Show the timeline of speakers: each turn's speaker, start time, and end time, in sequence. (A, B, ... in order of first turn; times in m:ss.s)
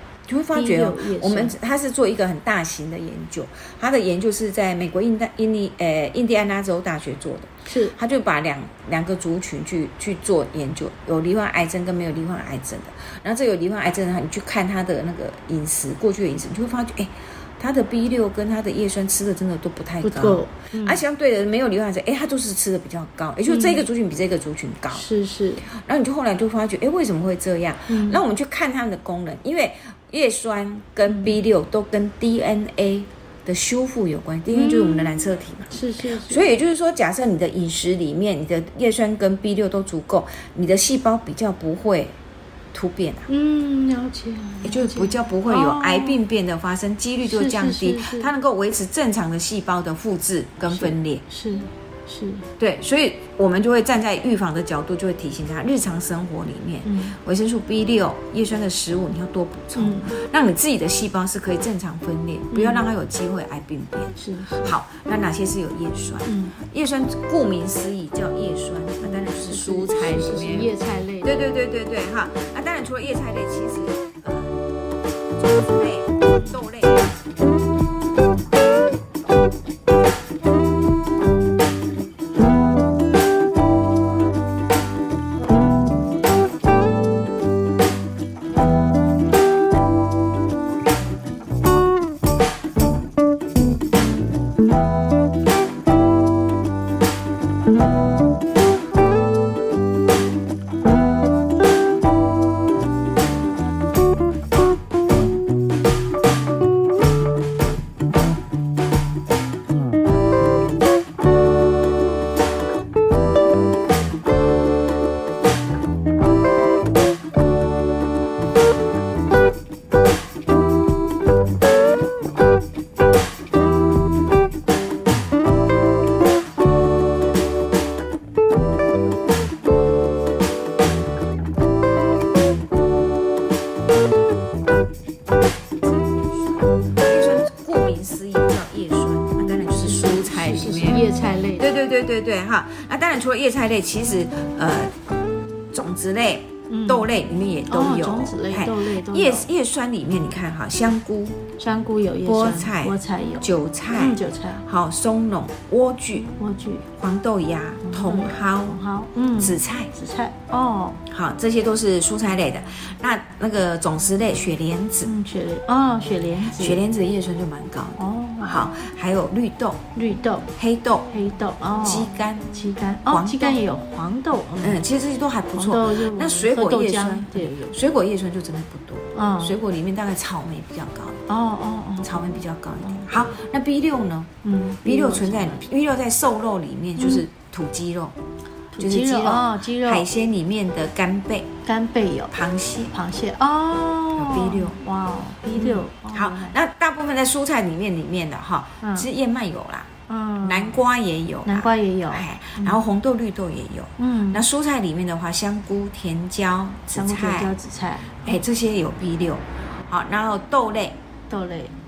0:00.3-0:25.0 A
0:00.5-0:01.6 B
0:07.6-0:08.0 B
0:20.0-0:21.0 B
0:23.5-0:23.9 B
0:24.9-0:25.6 B
0:25.7-0:42.1 A
0:27.9-0:28.2 B
0:31.1-0:31.4 B
0:34.5-0:36.5 B
0:42.7-0:43.3 A
0:43.3-0:46.2 B
0:44.6-0:51.2 A
0:47.2-0:48.3 B
0:50.7-0:52.5 B
0:52.6-1:10.7 A
0:56.8-0:57.2 B
0:59.8-1:00.2 B
1:02.5-1:02.9 B
1:04.2-1:04.8 B
1:06.2-1:06.6 B
1:09.0-1:11.5 B
1:11.2-1:14.6 A
1:15.4-1:17.1 A
2:17.0-2:21.1 A
2:19.4-2:21.7 B
2:21.6-2:24.9 A
2:25.7-2:31.4 A
2:26.7-2:27.1 B
2:27.7-2:29.5 B
2:31.6-2:34.6 B
2:32.2-2:36.3 A
2:36.3-2:36.9 B
2:37.0-2:38.8 A
2:37.8-2:41.0 B
2:39.4-2:39.9 A
2:41.1-2:45.1 A
2:45.0-2:46.8 B
2:46.5-2:49.8 A
2:48.0-2:48.7 B
2:50.0-2:50.5 B
2:50.6-2:51.1 A
2:51.1-2:54.8 B
2:51.8-2:52.5 A
2:53.1-2:53.6 A
2:54.6-3:01.2 A
2:55.6-2:57.8 B
2:59.1-2:59.6 B
3:01.3-3:03.3 B
3:02.0-3:04.3 A
3:04.4-3:05.6 B
3:04.8-3:08.2 A
3:07.0-3:07.3 B
3:08.7-3:10.1 B
3:08.8-3:11.5 A
3:11.6-3:12.3 B
3:12.3-3:12.9 A
3:12.9-3:16.6 B
3:14.2-3:14.8 A
3:15.6-3:19.9 A
3:18.8-3:19.1 B
3:20.1-3:20.8 B
3:20.4-3:27.5 A
3:21.5-3:22.8 B
3:24.0-3:24.4 B
3:26.9-3:28.3 B
3:28.2-3:31.0 A
3:31.3-3:31.7 B